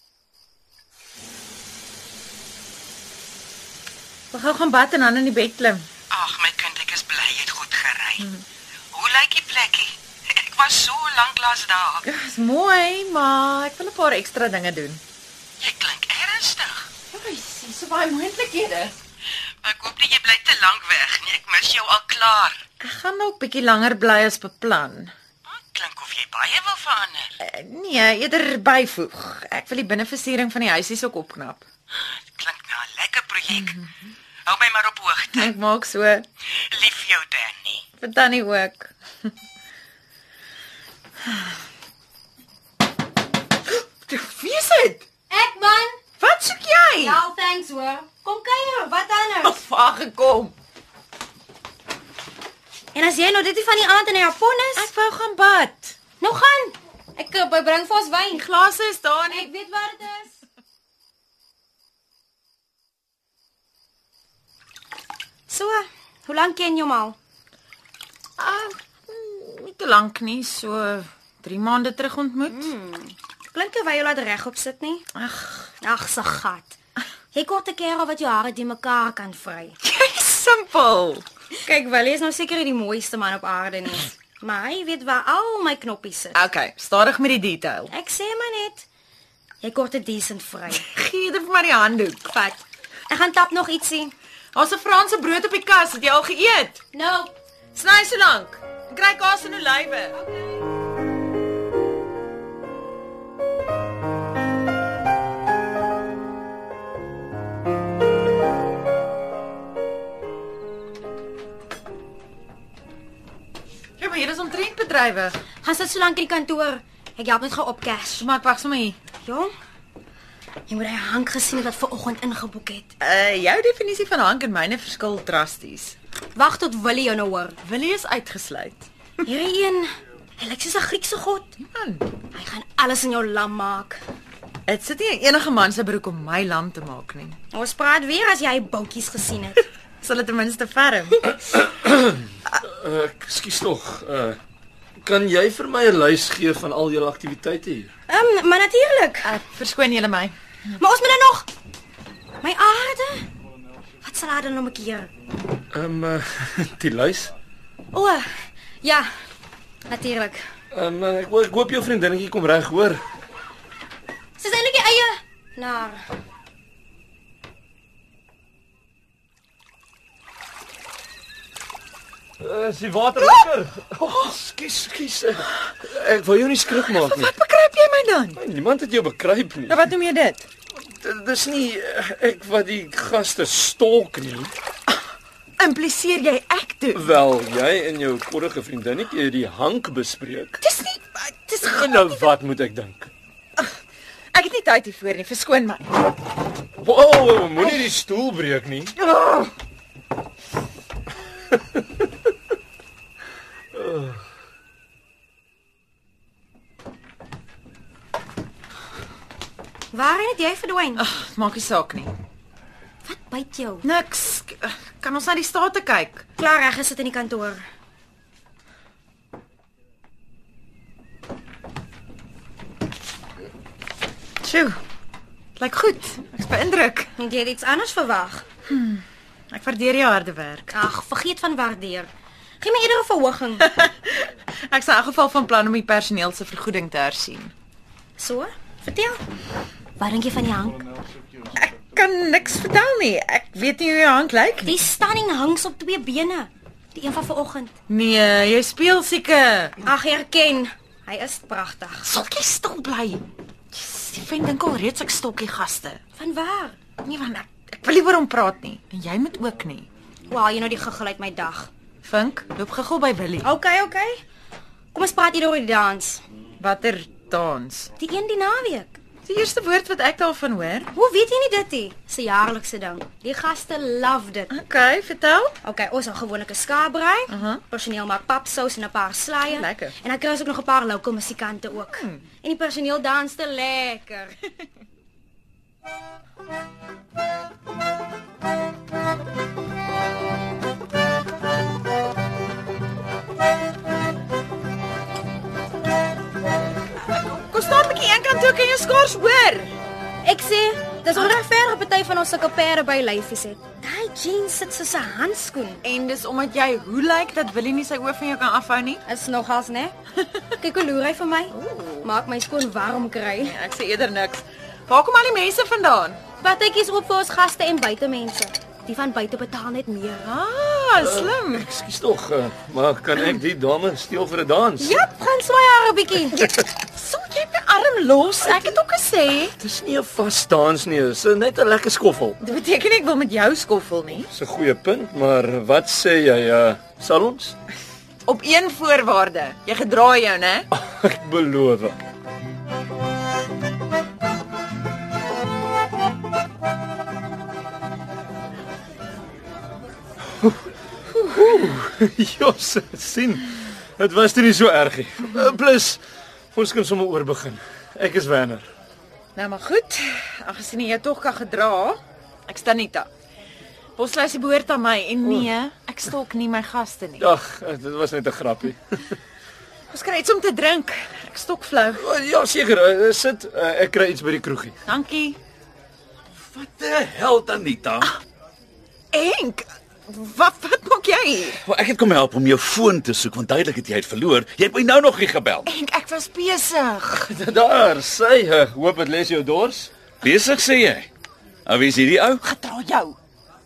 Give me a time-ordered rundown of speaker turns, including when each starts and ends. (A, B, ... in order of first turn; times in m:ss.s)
0:04.3-0:05.9 A
0:06.1-0:08.2 B
0:09.0-0:09.8 B
0:10.5-0:11.9 B
0:12.0-0:15.0 A
0:15.6-0:16.8 B
0:17.1-0:19.0 A
0:19.6-0:22.5 B
0:22.8-0:25.1 A
0:25.7-0:27.2 B
0:27.4-0:31.6 A
0:32.4-0:33.7 B
0:34.5-0:35.3 B
0:35.3-0:36.2 A
0:36.8-0:37.7 B
0:38.0-0:38.9 A
0:44.0-0:45.0 A
0:45.3-0:46.0 C
0:46.2-0:47.2 A
0:47.0-0:49.6 C
0:49.4-0:50.5 A
0:52.9-0:54.9 C
0:54.8-0:56.0 A
0:56.2-0:58.4 C
0:58.3-0:59.5 A
0:59.3-1:00.3 C
1:05.5-1:07.2 C
1:08.4-1:12.7 A
1:12.5-1:15.0 C
1:15.1-1:15.7 A
1:15.8-1:16.8 C
1:17.3-1:19.7 C
1:19.8-1:21.2 A
1:21.6-1:26.4 C
1:26.3-1:27.9 A
1:27.9-1:28.8 C
1:29.6-1:30.9 C
1:30.7-1:32.3 A
1:32.3-1:34.1 C
1:34.5-1:36.8 A
1:36.9-1:37.3 C
1:37.7-1:40.2 A
1:40.1-1:40.6 C
1:54.0-1:55.3 A
1:55.6-1:58.2 C
1:58.1-1:59.0 A
1:59.2-1:59.5 C
2:00.7-2:02.9 C
2:03.0-2:06.0 A
2:06.4-2:07.6 C
2:07.6-2:08.8 A
2:09.2-2:11.6 C
2:11.6-2:12.0 A
2:12.3-2:14.0 C
2:14.7-2:17.4 A
2:17.5-2:19.6 C
2:20.0-2:21.3 A
2:21.5-2:24.4 D
2:25.0-2:27.9 D
2:28.1-2:29.3 C
2:29.2-2:30.3 A
2:30.8-2:31.5 C
2:32.4-2:33.2 C
2:34.0-2:35.1 C
2:35.7-2:37.3 D
2:37.9-2:38.3 C
2:38.8-2:39.1 C
2:39.9-2:40.4 C
2:40.7-2:43.0 D
2:44.4-2:46.0 C
2:52.4-2:57.3 D
2:56.9-2:58.4 A
2:58.4-2:59.8 D
2:59.7-3:00.5 A
3:00.8-3:04.5 D
3:05.6-3:07.1 A
3:06.9-3:10.6 D
3:10.6-3:12.3 A
3:11.6-3:13.1 D
3:14.3-3:15.9 A
3:16.8-3:19.5 D
3:23.7-3:24.2 D
3:29.9-3:31.0 C
3:31.0-3:32.1 A
3:33.0-3:33.8 C
3:33.8-3:36.2 A
3:36.4-3:37.6 C
3:44.4-3:44.8 A
3:45.6-3:47.1 A
3:47.2-3:48.4 C
3:48.7-3:50.8 A
3:50.7-3:52.1 C
3:52.6-3:53.7 C
3:53.6-3:57.5 A
3:58.2-3:59.2 C
4:00.0-4:00.8 C
4:01.5-4:04.8 A
4:04.6-4:07.7 C
4:07.9-4:09.8 A
4:09.8-4:12.1 C
4:12.0-4:13.2 A
4:13.7-4:16.0 A
4:16.2-4:16.8 C
4:17.0-4:19.9 A
4:20.3-4:21.7 C
4:22.0-4:23.5 A
4:23.4-4:24.2 C
4:24.9-4:26.2 C
4:26.6-4:27.9 A
4:28.0-4:29.0 C
4:29.2-4:30.9 A
4:30.9-4:34.5 C
4:34.5-4:35.5 A
4:35.6-4:44.4 C
4:37.3-4:37.6 A
4:39.5-4:39.9 A
4:41.9-4:42.2 A
4:57.0-4:59.7 A
5:00.2-5:05.8 C
5:05.8-5:09.0 A
5:09.0-5:09.9 C
5:10.6-5:13.5 C
5:11.5-5:12.1 A
5:13.4-5:16.2 A
5:16.4-5:20.3 C
5:20.2-5:21.6 A
5:21.0-5:25.0 D
5:24.8-5:26.4 C
5:26.5-5:29.5 A
5:29.6-5:32.4 D
5:32.4-5:34.3 A
5:34.3-5:37.6 D
5:38.2-5:40.7 A
5:40.7-5:42.0 D
5:50.4-5:56.0 D
5:56.5-5:58.7 D
5:59.4-6:03.1 A
6:04.0-6:07.3 A
6:05.2-6:05.5 D
6:07.2-6:09.2 D
6:09.9-6:12.0 A
6:12.0-6:14.8 D
6:14.8-6:15.4 A
6:16.5-6:18.1 E
6:19.1-6:21.6 A
6:21.6-6:25.7 E
6:25.6-6:27.3 A
6:27.2-6:29.9 D
6:30.2-6:31.1 E
6:31.6-6:32.4 E
6:32.4-6:33.2 A